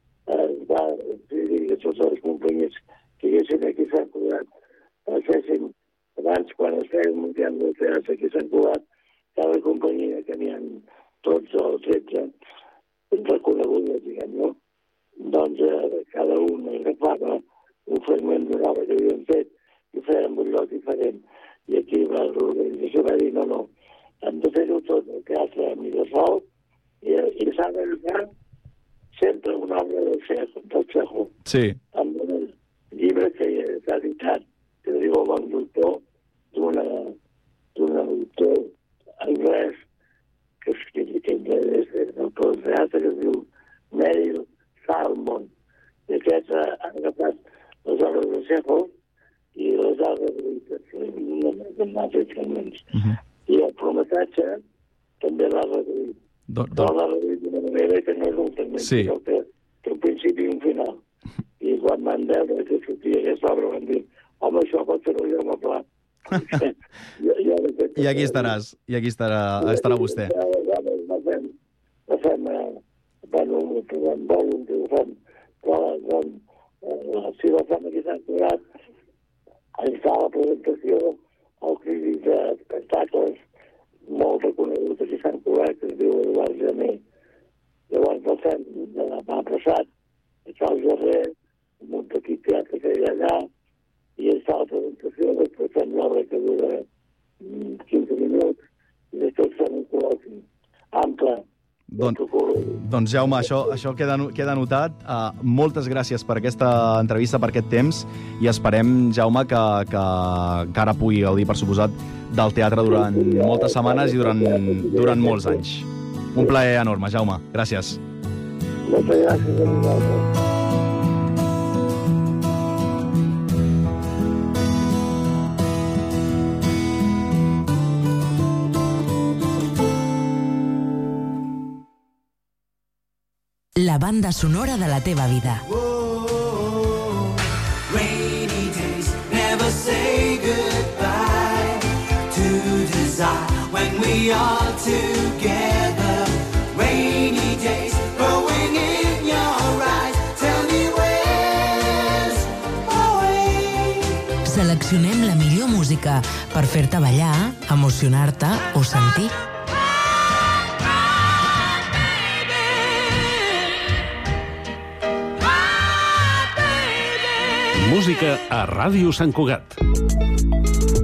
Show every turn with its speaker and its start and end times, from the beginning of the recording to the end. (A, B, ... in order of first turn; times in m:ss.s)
0:00.3-0:04.4 A
0:05.1-0:08.8 A
0:09.4-0:12.3 A
0:13.1-0:14.6 A
0:15.2-0:23.7 A
0:24.2-0:26.4 A
0:27.0-0:28.3 A
0:29.2-0:31.3 A
0:31.5-0:31.8 B
0:32.0-0:36.0 A
0:36.5-0:37.1 A
0:37.8-0:38.7 A
0:39.2-0:39.8 A
0:40.6-0:45.5 A
0:46.1-0:48.9 A
0:49.6-0:52.8 A
0:53.5-0:54.6 A
0:55.2-0:56.1 A
0:56.5-0:56.9 B
0:56.7-1:01.0 A
0:58.8-0:59.1 B
1:01.6-1:08.6 A
1:08.0-1:10.3 B
1:09.6-1:11.5 A
1:12.1-1:18.6 A
1:19.8-1:23.4 A
1:24.1-1:27.0 A
1:27.9-1:29.9 A
1:30.5-1:31.3 A
1:31.8-1:33.4 A
1:34.2-1:36.8 A
1:37.4-1:38.6 A
1:39.1-1:41.4 A
1:41.9-1:42.2 B
1:42.0-1:43.7 A
1:42.8-1:58.0 B
1:52.9-1:55.6 A
1:58.9-2:00.2 A
2:13.8-2:15.6 C
2:15.7-2:17.0 D
2:17.9-2:34.1 D
2:34.4-2:39.3 C
2:47.8-2:49.8 E